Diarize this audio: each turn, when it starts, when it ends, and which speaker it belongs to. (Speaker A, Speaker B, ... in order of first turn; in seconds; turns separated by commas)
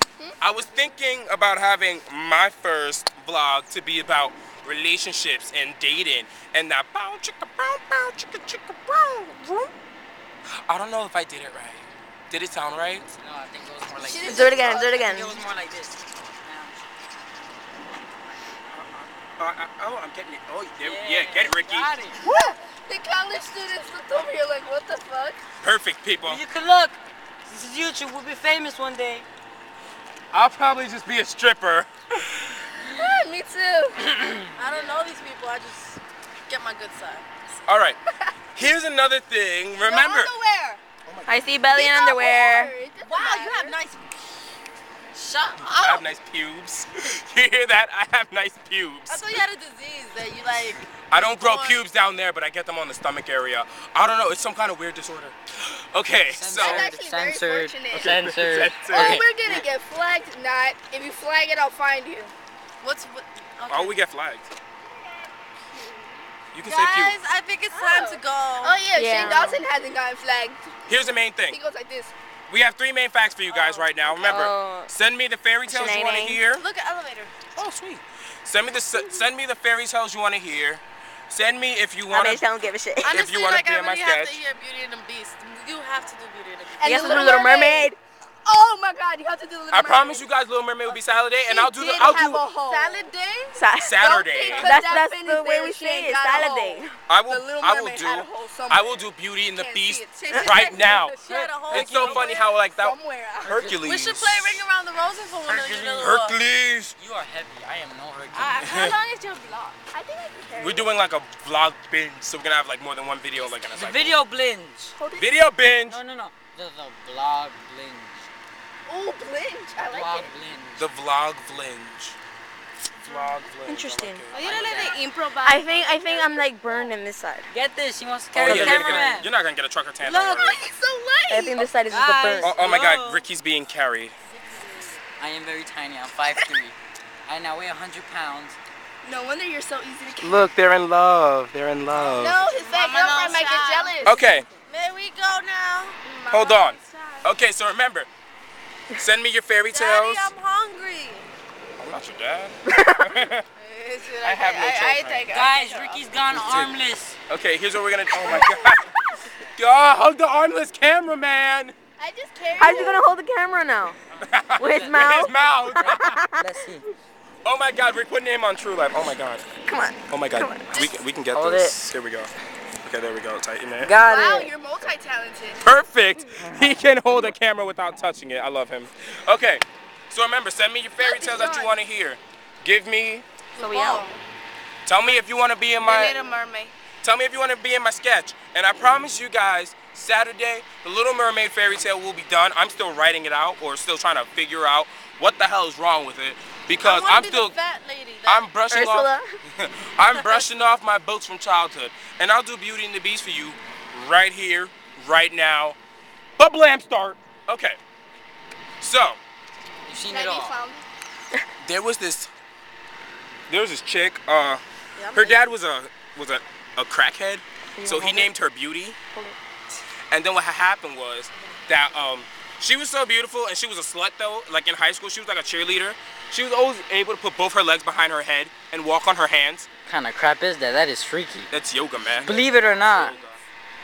Speaker A: 0.4-9.6, Speaker A: 10.7-13.1, Speaker B: 13.1-16.8, Speaker C: 14.0-15.1, Speaker D: 14.2-15.4, Speaker A: 18.7-22.6, Speaker B: 20.8-22.2, Speaker C: 22.3-25.4, Speaker A: 25.6-26.4, Speaker B: 26.2-29.2, Speaker A: 30.3-32.6, Speaker C: 32.8-34.1, Speaker E: 34.6-37.2, Speaker A: 37.6-38.0, Speaker A: 38.5-40.3, Speaker C: 39.8-40.8, Speaker A: 41.0-41.5, Speaker D: 41.2-42.7, Speaker C: 41.7-43.8, Speaker E: 43.0-44.0, Speaker E: 45.1-46.0, Speaker A: 45.6-49.4, Speaker E: 49.1-51.8, Speaker A: 51.1-56.9, Speaker B: 56.3-59.6, Speaker C: 56.5-58.1, Speaker A: 57.9-59.2, Speaker C: 58.9-62.3, Speaker E: 62.8-64.0, Speaker A: 63.7-64.5, Speaker A: 66.5-67.2, Speaker E: 66.6-68.8, Speaker C: 67.7-70.7, Speaker D: 68.9-69.6, Speaker A: 70.9-71.6, Speaker C: 71.4-72.1, Speaker A: 72.5-76.6, Speaker E: 73.5-74.0, Speaker D: 74.1-74.9, Speaker D: 75.7-76.4, Speaker E: 76.6-77.3, Speaker A: 77.5-82.4, Speaker D: 82.1-83.2, Speaker A: 83.0-84.4, Speaker E: 83.1-86.9, Speaker C: 86.8-87.9, Speaker D: 86.8-88.0, Speaker C: 88.4-90.2, Speaker A: 89.7-92.4, Speaker C: 91.4-93.1, Speaker E: 92.6-93.6, Speaker D: 93.5-93.9, Speaker A: 93.8-94.7, Speaker C: 94.0-103.8, Speaker D: 94.5-96.9, Speaker A: 97.1-104.6, Speaker D: 100.3-100.5, Speaker E: 101.1-102.3, Speaker E: 103.8-106.4, Speaker B: 105.4-106.3, Speaker A: 106.0-107.0, Speaker B: 107.0-108.9, Speaker E: 108.3-109.8, Speaker A: 108.6-109.0, Speaker C: 109.9-110.9, Speaker A: 110.6-114.2, Speaker B: 113.4-115.0, Speaker C: 115.0-115.2, Speaker A: 115.1-116.0, Speaker B: 115.8-118.3, Speaker C: 118.9-120.3, Speaker B: 119.8-120.9, Speaker A: 120.8-122.2, Speaker A: 123.0-124.9, Speaker D: 123.6-124.2, Speaker B: 124.3-125.0, Speaker C: 124.3-126.4, Speaker E: 124.4-125.2, Speaker D: 125.4-127.5, Speaker B: 127.5-129.3, Speaker D: 128.3-129.2, Speaker A: 128.4-130.6, Speaker C: 130.1-131.6, Speaker D: 131.3-132.6, Speaker B: 131.9-133.2, Speaker A: 132.4-134.1, Speaker B: 135.2-138.6, Speaker C: 139.0-140.4, Speaker A: 140.2-142.4, Speaker B: 141.9-142.4, Speaker C: 142.2-144.2, Speaker E: 142.5-143.9, Speaker A: 144.0-144.4, Speaker E: 144.7-146.0, Speaker C: 146.0-147.3, Speaker A: 146.3-148.1, Speaker A: 148.9-150.3, Speaker E: 149.7-151.3, Speaker A: 151.8-153.4, Speaker D: 152.7-153.1, Speaker E: 153.6-156.0, Speaker A: 154.2-155.3, Speaker B: 155.3-157.2, Speaker A: 156.3-156.7, Speaker A: 157.3-161.7, Speaker C: 162.0-163.0, Speaker D: 162.6-164.0, Speaker A: 164.2-166.2, Speaker D: 164.6-166.4, Speaker B: 164.6-165.1, Speaker B: 166.3-166.9, Speaker A: 167.4-169.4, Speaker D: 169.6-170.7, Speaker A: 170.1-173.9, Speaker B: 171.3-171.8, Speaker B: 173.8-174.5, Speaker C: 174.0-175.6, Speaker A: 175.6-183.2, Speaker C: 181.0-181.8, Speaker D: 183.6-184.1, Speaker A: 184.8-186.2, Speaker C: 185.8-186.6, Speaker A: 187.0-197.5, Speaker E: 196.8-198.4, Speaker A: 198.2-205.8, Speaker D: 198.7-199.3, Speaker A: 206.4-207.8, Speaker A: 208.8-209.2, Speaker B: 209.8-210.6, Speaker C: 210.0-210.8, Speaker A: 211.6-212.3, Speaker A: 213.5-214.6, Speaker A: 215.1-219.0, Speaker D: 217.8-218.3, Speaker A: 220.1-229.7, Speaker B: 229.8-231.5, Speaker A: 231.5-233.3, Speaker B: 232.2-233.2, Speaker C: 232.3-233.2